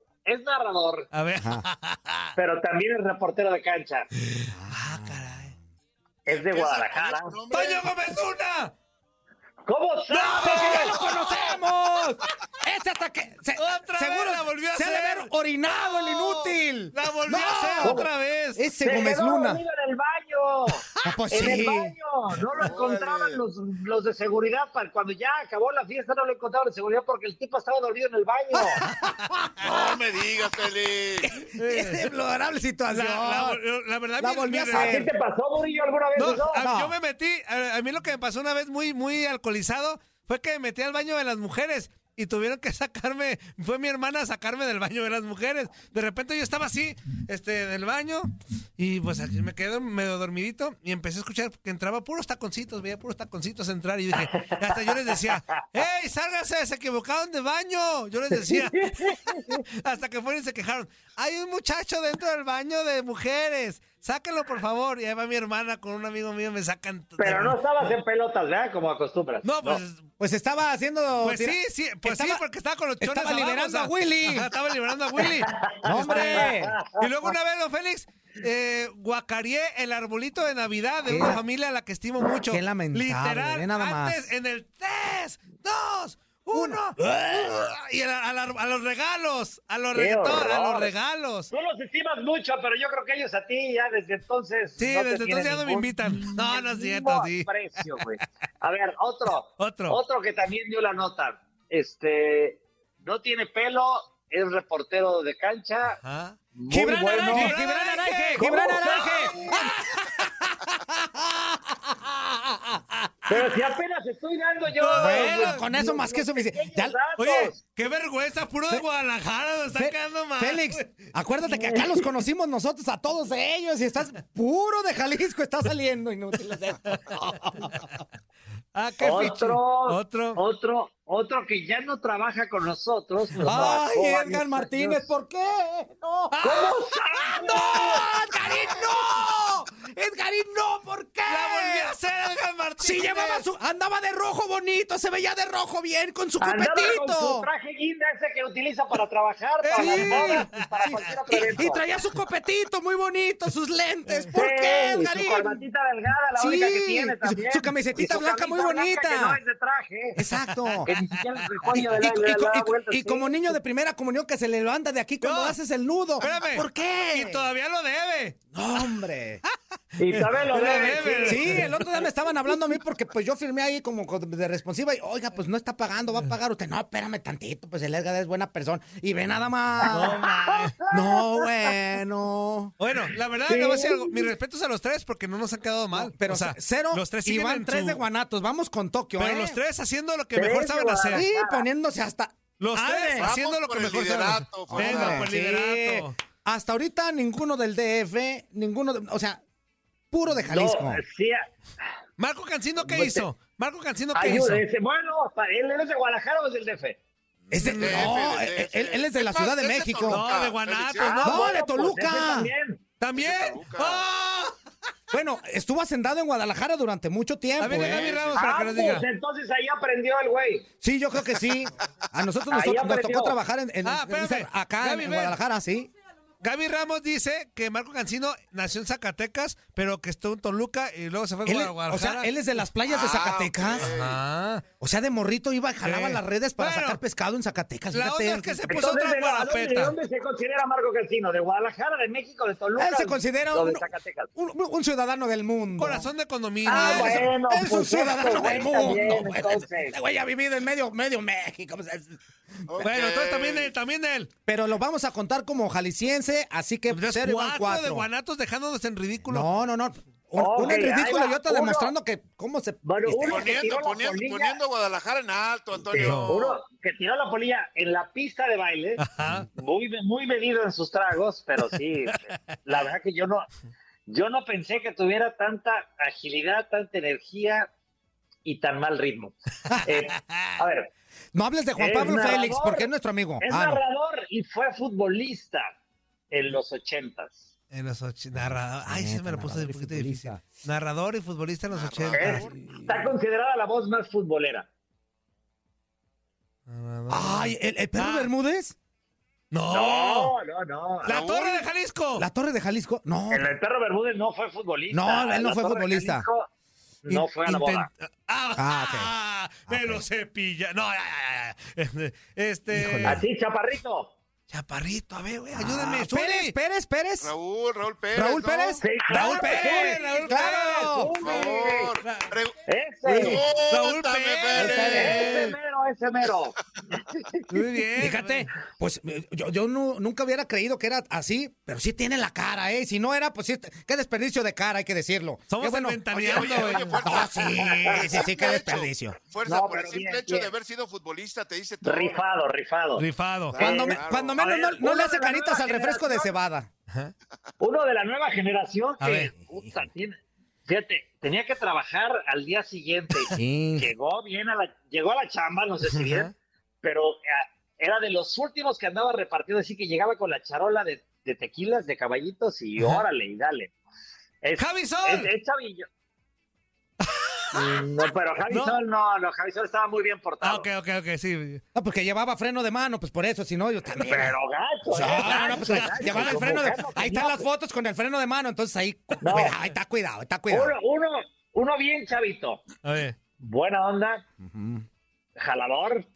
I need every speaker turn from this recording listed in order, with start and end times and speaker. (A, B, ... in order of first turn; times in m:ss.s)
0:00.2-0:01.1 A
0:01.1-0:02.3 B
0:01.4-0:01.6 C
0:02.4-0:04.1 A
0:04.2-0:05.5 B
0:04.5-0:05.2 C
0:06.3-0:07.4 A
0:06.3-0:08.2 D
0:07.5-0:08.7 B
0:09.6-0:10.9 A
0:10.1-0:11.3 B
0:10.3-0:18.0 C
0:13.6-0:15.3 B
0:15.8-0:18.6 B
0:17.8-0:18.1 A
0:18.6-0:19.6 C
0:18.8-0:28.8 A
0:21.0-0:22.0 C
0:22.6-0:23.4 D
0:28.5-0:29.5 C
0:29.6-0:31.3 D
0:31.2-0:33.6 C
0:31.6-0:32.1 B
0:32.9-0:35.0 B
0:34.2-0:35.1 C
0:34.7-0:36.6 A
0:36.2-1:07.6 B
0:36.6-0:36.9 C
0:58.3-0:59.6 A
1:07.2-1:09.8 A
1:09.4-1:10.0 B
1:10.2-1:12.4 C
1:11.2-1:31.5 B
1:13.0-1:14.5 C
1:15.4-1:17.0 A
1:15.8-1:16.8 C
1:21.0-1:21.4 C
1:22.5-1:24.3 C
1:26.5-1:27.7 C
1:29.9-1:30.9 A
1:31.5-1:46.0 A
1:34.8-1:38.0 B
1:39.6-1:40.0 B
1:46.0-1:46.4 B
1:46.5-1:47.6 A
1:46.7-1:53.4 C
1:47.2-1:49.0 B
1:48.4-1:49.6 A
1:53.3-1:57.6 A
1:54.8-1:55.6 B
1:55.0-1:57.0 C
1:57.2-2:01.1 B
1:59.7-2:07.9 C
2:01.5-2:02.0 A
2:08.7-2:10.4 B
2:09.0-2:15.0 A
2:13.4-2:13.6 B
2:13.4-2:21.9 C
2:16.3-2:16.8 B
2:16.4-2:18.0 A
2:21.3-2:23.4 B
2:22.8-2:27.5 C
2:26.4-2:31.8 A
2:29.6-2:30.8 B
2:29.8-2:35.6 C
2:34.1-2:34.3 B
2:34.3-2:40.2 A
2:36.4-2:39.4 C
2:40.2-2:40.9 C
2:40.4-2:41.8 B
2:40.8-2:43.5 A
2:41.7-2:47.5 C
2:45.2-2:45.6 B
2:46.2-2:48.4 B
2:48.5-2:49.4 C
2:50.0-2:51.8 A
2:50.1-2:51.8 B
2:50.7-3:00.2 C
2:59.8-3:01.4 A
2:59.9-3:00.8 B
3:00.9-3:02.7 C
3:02.8-3:08.0 B
3:03.5-3:04.3 A
3:05.9-3:09.6 C
3:09.2-3:11.2 B
3:10.3-3:11.6 A
3:11.1-3:13.3 C
3:12.6-3:16.2 B
3:13.2-3:15.2 D
3:14.7-3:19.4 C
3:20.1-3:21.0 C
3:20.5-3:21.4 A
3:22.2-3:24.6 B
3:22.9-3:23.2 A
3:24.1-3:27.0 A
3:27.5-3:30.2 C
3:27.6-3:28.1 B
3:27.7-3:31.3 D
3:30.1-3:31.5 B
3:31.1-3:32.8 A
3:31.2-3:32.5 C
3:33.0-3:34.5 B
3:33.1-3:34.0 D
3:35.1-3:38.2 C
3:37.6-3:39.0 B
3:37.7-3:38.4 D
3:38.4-3:40.7 A
3:40.8-3:45.9 C
3:42.5-3:43.4 A
3:43.8-3:45.4 B
3:46.4-3:52.3 B
3:51.4-3:53.9 C
3:52.9-3:54.2 D
3:53.8-3:54.6 B
3:54.8-3:58.8 C
3:55.8-3:57.0 B
3:57.9-4:00.0 B
3:58.7-4:04.3 A
4:02.8-4:06.1 C
4:05.8-4:07.3 B
4:06.6-4:10.0 A
4:06.7-4:12.2 C
4:12.7-4:13.7 D
4:12.8-4:14.3 B
4:14.5-4:18.1 C
4:16.9-4:19.5 B
4:19.3-4:23.5 C
4:20.4-4:21.9 A
4:22.8-4:24.6 A
4:23.2-4:26.5 D
4:25.9-4:29.0 A
4:25.9-4:26.6 B
4:29.0-4:29.4 B
4:29.5-4:33.5 A
4:34.1-4:37.7 A
4:38.4-4:40.9 A
4:39.7-4:40.0 C
4:40.1-4:40.6 B
4:41.3-4:43.8 C
4:41.8-4:42.9 A
4:43.4-4:45.7 A
4:46.3-4:47.5 A
4:47.7-4:52.4 B
4:48.4-4:50.4 C
4:51.7-4:52.6 D
4:52.1-4:54.7 A
4:52.6-4:53.1 C
4:56.7-4:58.3 B
4:57.1-4:58.8 C
4:59.5-5:00.3 B
4:59.7-5:01.1 A
5:01.0-5:01.6 D
5:01.0-5:02.2 B
5:02.2-5:03.6 C
5:03.3-5:06.5 A
5:04.9-5:06.3 C
5:07.0-5:07.9 A
5:07.1-5:13.2 B
5:08.6-5:09.1 C
5:09.7-5:10.0 C
5:12.7-5:13.2 C
5:13.0-5:14.1 A
5:14.5-5:16.5 B
5:15.6-5:17.3 C
5:17.2-5:18.8 D
5:18.1-5:21.2 C
5:18.8-5:21.9 A
5:19.1-5:21.4 B
5:21.2-5:25.2 D
5:22.0-5:22.3 B
5:22.6-5:23.4 A
5:23.0-5:23.4 C
5:23.7-5:25.6 B
5:24.6-5:25.3 C
5:24.9-5:27.2 A
5:27.5-5:28.5 B
5:28.0-5:36.5 C
5:35.5-5:37.0 B
5:36.1-5:42.2 D
5:37.0-5:39.2 C
5:37.6-5:38.0 A
5:39.4-5:40.5 A
5:41.8-5:43.1 A
5:43.0-5:43.6 B
5:43.5-5:44.4 D
5:43.6-5:46.4 A
5:43.6-5:46.7 C
5:47.6-6:03.7 A
5:49.0-5:49.3 B
5:49.5-5:49.8 C
5:53.3-5:53.9 C
5:55.8-5:56.3 B
6:04.4-6:05.8 A
6:04.6-6:05.3 B
6:07.0-6:07.7 B
6:07.5-6:10.6 A
6:08.5-6:08.8 B
6:10.4-6:11.6 B
6:11.7-6:14.4 C
6:13.9-6:17.4 A
6:14.9-6:20.7 C
6:15.0-6:16.6 B
6:19.2-6:19.5 A
6:20.5-6:22.6 A
6:22.8-6:23.2 B
6:23.4-6:24.2 A
6:24.4-6:24.8 C
6:25.4-6:26.0 A